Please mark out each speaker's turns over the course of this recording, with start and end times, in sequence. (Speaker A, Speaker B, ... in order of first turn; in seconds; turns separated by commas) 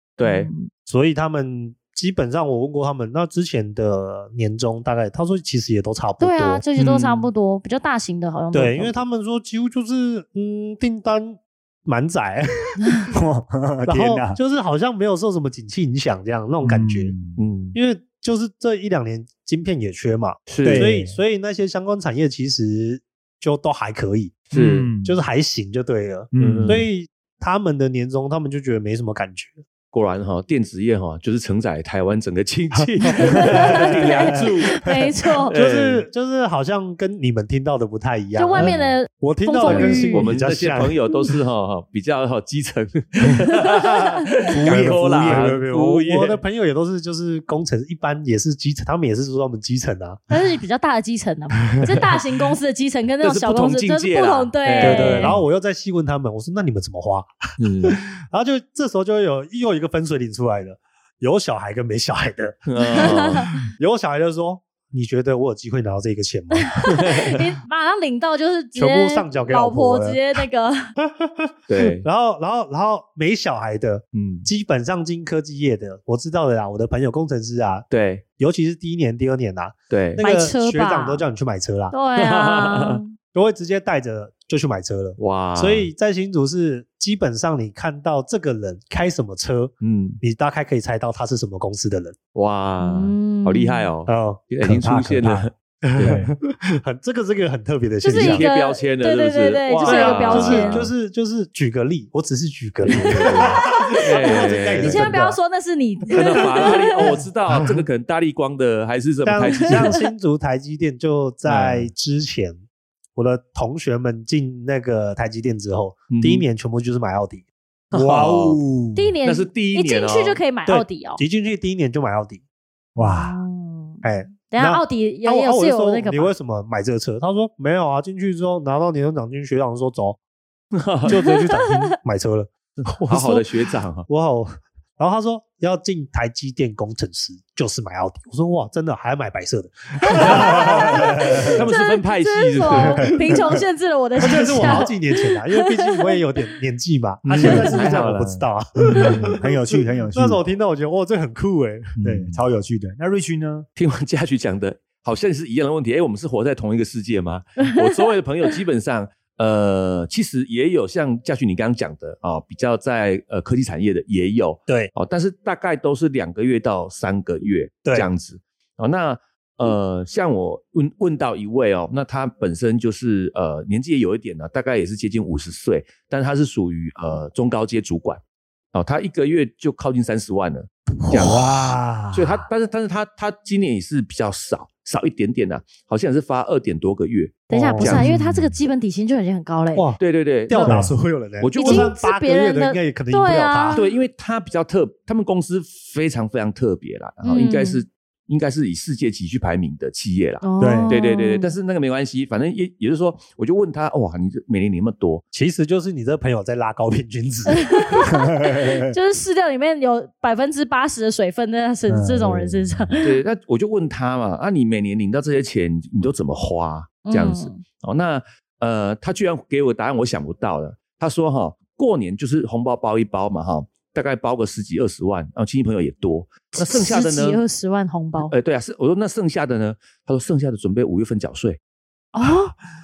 Speaker A: 0.2-0.5, Speaker B: 0.2-0.7, Speaker C: 0.9-6.6, Speaker B: 6.2-8.9, Speaker A: 6.8-7.3, Speaker C: 8.5-12.8, Speaker D: 13.1-14.4, Speaker C: 13.8-24.4, Speaker D: 16.6-17.4, Speaker A: 17.4-17.8, Speaker A: 20.5-20.9, Speaker D: 20.6-21.2, Speaker A: 24.5-24.9, Speaker D: 24.5-25.2, Speaker C: 25.0-29.6, Speaker D: 26.3-26.9, Speaker A: 26.4-26.8, Speaker A: 29.9-34.8, Speaker C: 32.7-34.0, Speaker B: 33.1-35.5, Speaker D: 33.7-34.5, Speaker A: 35.5-36.0, Speaker C: 35.5-41.1, Speaker B: 38.4-40.3, Speaker A: 38.6-38.9, Speaker A: 39.6-46.4, Speaker B: 43.5-44.1, Speaker D: 44.5-45.5, Speaker C: 44.6-50.2, Speaker B: 50.3-55.4, Speaker A: 53.2-55.3, Speaker C: 54.8-57.3, Speaker D: 54.8-55.4, Speaker A: 57.6-58.0, Speaker C: 57.8-67.2, Speaker A: 62.7-63.5, Speaker B: 62.9-63.5, Speaker B: 66.5-70.9, Speaker C: 68.7-70.2, Speaker C: 71.0-77.9, Speaker A: 71.7-72.0, Speaker A: 74.1-74.5, Speaker A: 77.9-78.2, Speaker C: 78.4-81.9, Speaker A: 79.9-80.2, Speaker B: 80.2-81.2, Speaker B: 81.9-83.1, Speaker A: 82.2-83.0, Speaker C: 83.3-92.2, Speaker A: 85.2-85.9, Speaker A: 89.8-90.2, Speaker A: 92.3-96.2, Speaker B: 92.8-93.9, Speaker C: 94.1-94.4, Speaker D: 94.6-96.3, Speaker C: 95.8-98.5, Speaker B: 98.0-100.8, Speaker A: 98.1-100.9, Speaker C: 99.8-105.4, Speaker A: 102.9-105.1, Speaker B: 103.0-107.1, Speaker A: 106.1-110.0, Speaker C: 107.5-107.8, Speaker C: 109.2-112.6, Speaker B: 109.4-110.0, Speaker A: 111.4-111.9, Speaker C: 113.1-117.4, Speaker A: 116.1-116.4, Speaker A: 117.9-118.6, Speaker D: 117.9-119.1, Speaker B: 118.9-121.2, Speaker A: 119.2-120.4, Speaker C: 120.7-122.4, Speaker D: 123.0-123.4, Speaker B: 123.0-126.3, Speaker C: 124.0-130.2, Speaker A: 130.7-131.1, Speaker C: 131.1-133.5, Speaker B: 131.1-131.9, Speaker A: 132.8-134.1, Speaker C: 134.1-141.6, Speaker B: 140.1-146.2, Speaker D: 140.8-141.5, Speaker A: 141.4-143.1, Speaker C: 142.7-143.3, Speaker C: 144.2-151.9, Speaker A: 147.3-148.4, Speaker D: 148.9-150.4, Speaker A: 151.9-152.4, Speaker D: 152.0-153.7, Speaker A: 153.8-178.2, Speaker C: 164.7-164.9, Speaker A: 178.7-188.1, Speaker D: 181.1-182.4, Speaker B: 187.5-189.8, Speaker C: 187.5-188.1, Speaker D: 187.8-188.6, Speaker C: 189.7-193.8, Speaker A: 190.0-190.7, Speaker D: 190.7-190.9, Speaker A: 191.4-191.9, Speaker B: 191.6-193.8, Speaker A: 193.7-205.2, Speaker B: 197.2-197.8, Speaker B: 200.4-201.5, Speaker D: 200.6-200.9, Speaker C: 205.3-208.0, Speaker B: 207.5-213.1, Speaker D: 208.1-208.9, Speaker D: 211.9-213.0, Speaker A: 213.0-227.4, Speaker B: 217.1-217.6, Speaker B: 226.5-228.3, Speaker A: 228.2-231.6, Speaker B: 232.1-232.5